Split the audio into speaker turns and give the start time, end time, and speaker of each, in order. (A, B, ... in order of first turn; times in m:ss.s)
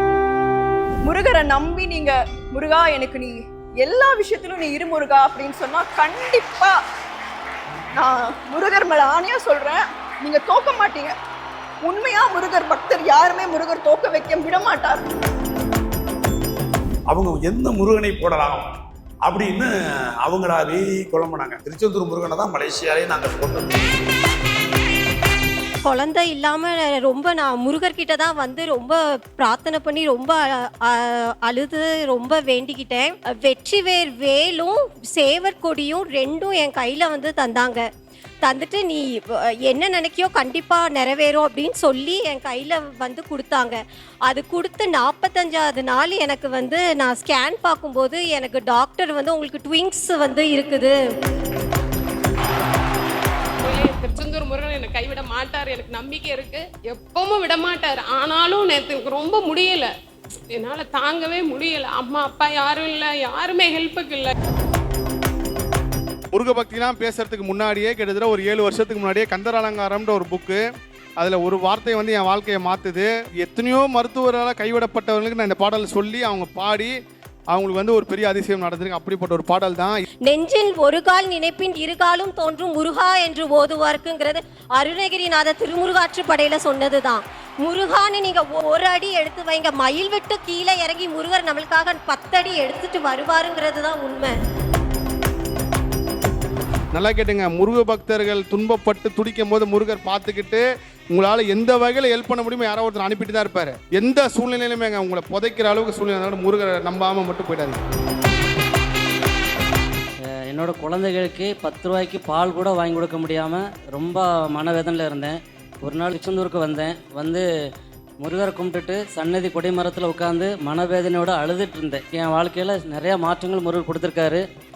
0:01.0-0:06.8 A
0:07.9-0:11.1 A
0:11.8-0:15.0 A
0:17.1-0:18.6 B
0:19.2-0:19.7 B
0:20.2-0:23.9 B
0:25.8-0:37.8 C
0:38.4-0:51.0 C
0:53.6-0:59.9 D
1:00.5-1:04.3 D
1:06.3-1:10.6 E
1:11.2-1:16.9 E
1:17.5-1:20.0 E
1:20.2-1:34.4 C
1:36.9-1:47.8 E
1:50.5-1:57.4 F
1:58.2-2:04.4 F